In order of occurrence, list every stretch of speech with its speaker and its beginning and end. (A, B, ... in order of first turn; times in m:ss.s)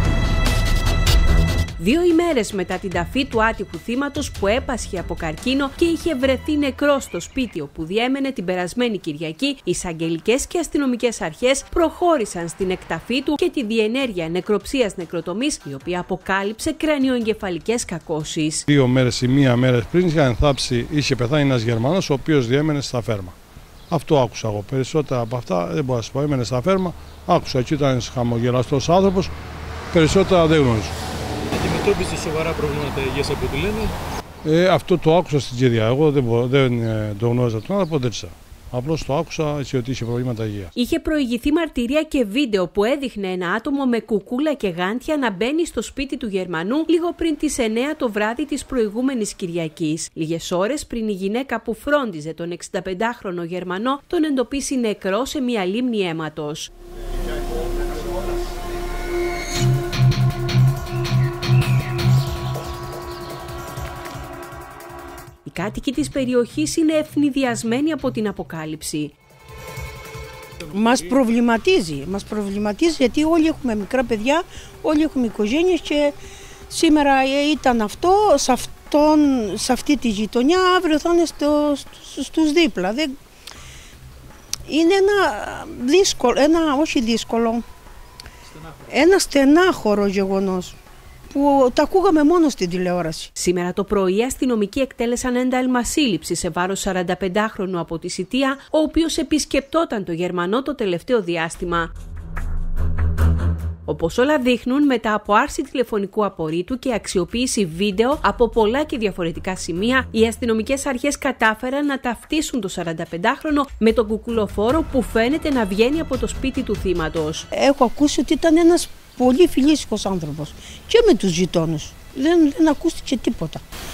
0:01.8-0:18.6 A
0:18.7-0:23.3 B
0:23.9-0:29.3 B
0:29.9-0:30.9 B
0:31.5-0:34.0 C
0:34.4-0:40.7 B
0:40.7-0:56.7 A
1:05.4-1:09.1 A
1:10.6-1:11.0 C
1:10.7-1:16.1 D
1:16.7-1:23.1 D
1:24.7-1:27.6 D
1:28.9-1:30.8 D
1:31.3-1:33.3 D
1:33.4-1:41.9 A
1:43.8-1:57.4 A
1:57.5-2:03.6 D